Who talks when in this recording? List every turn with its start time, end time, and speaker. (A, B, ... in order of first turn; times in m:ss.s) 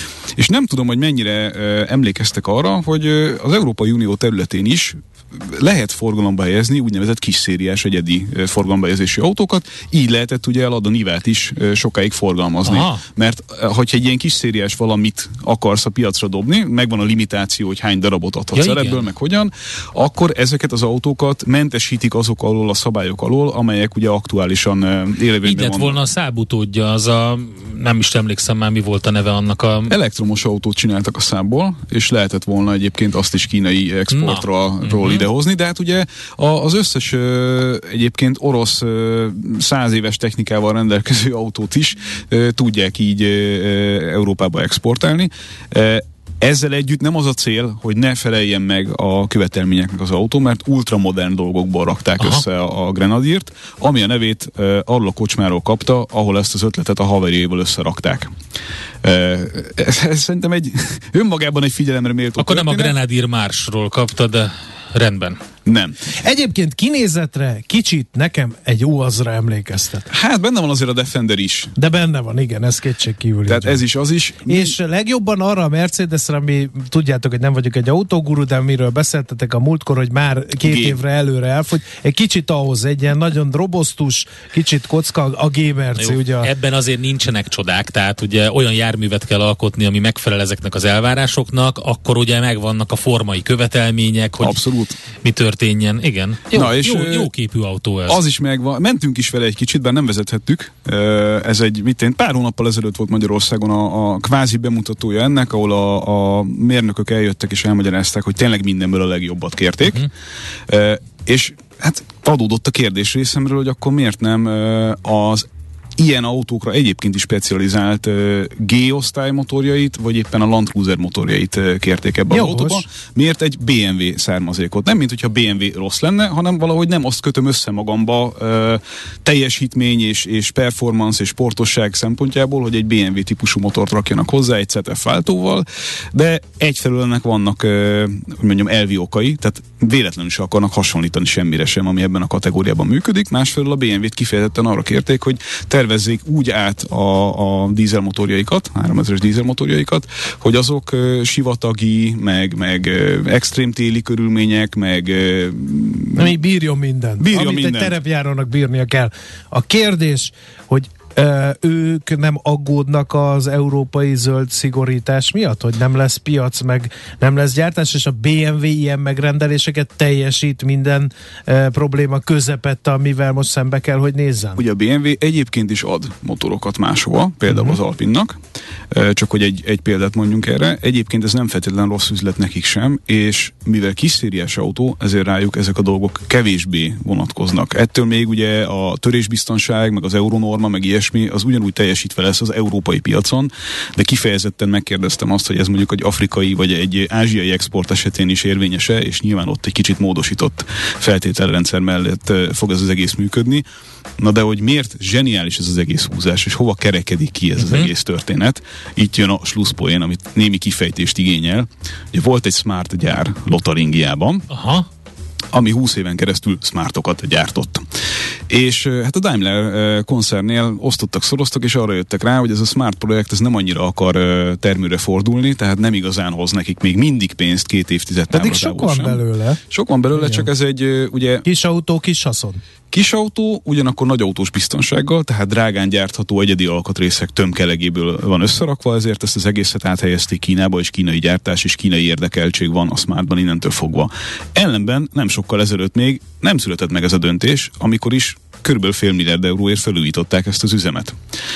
0:00.4-0:26.0 A
0:12.6-0:13.0 B
0:18.5-0:19.0 B
0:25.4-0:29.9 B
0:29.9-0:58.3 A
0:34.1-0:35.2 B
0:59.0-1:02.9 A
1:02.4-1:05.4 B
1:05.6-1:06.0 A
1:06.2-1:10.0 C
1:10.1-1:11.7 A
1:11.8-1:13.8 C
1:13.5-1:14.8 A
1:14.4-1:26.5 C
1:20.6-1:21.0 A
1:26.0-1:34.6 B
1:34.4-1:35.0 A
1:35.2-1:38.2 B
1:36.5-1:37.3 A
1:38.1-1:50.1 A
1:50.7-2:36.4 A
2:02.3-2:02.8 C
2:36.2-2:54.6 C
2:37.2-2:38.0 A
2:54.6-2:58.4 A
2:57.5-2:57.8 C
2:58.9-3:23.6 A
3:24.2-3:34.5 A
3:27.6-3:27.9 B
3:34.5-3:34.9 B
3:35.5-3:37.9 A
3:38.5-3:51.4 A
3:48.3-3:49.6 C
3:50.2-3:50.4 C
3:51.4-3:52.6 C
3:52.9-4:11.2 A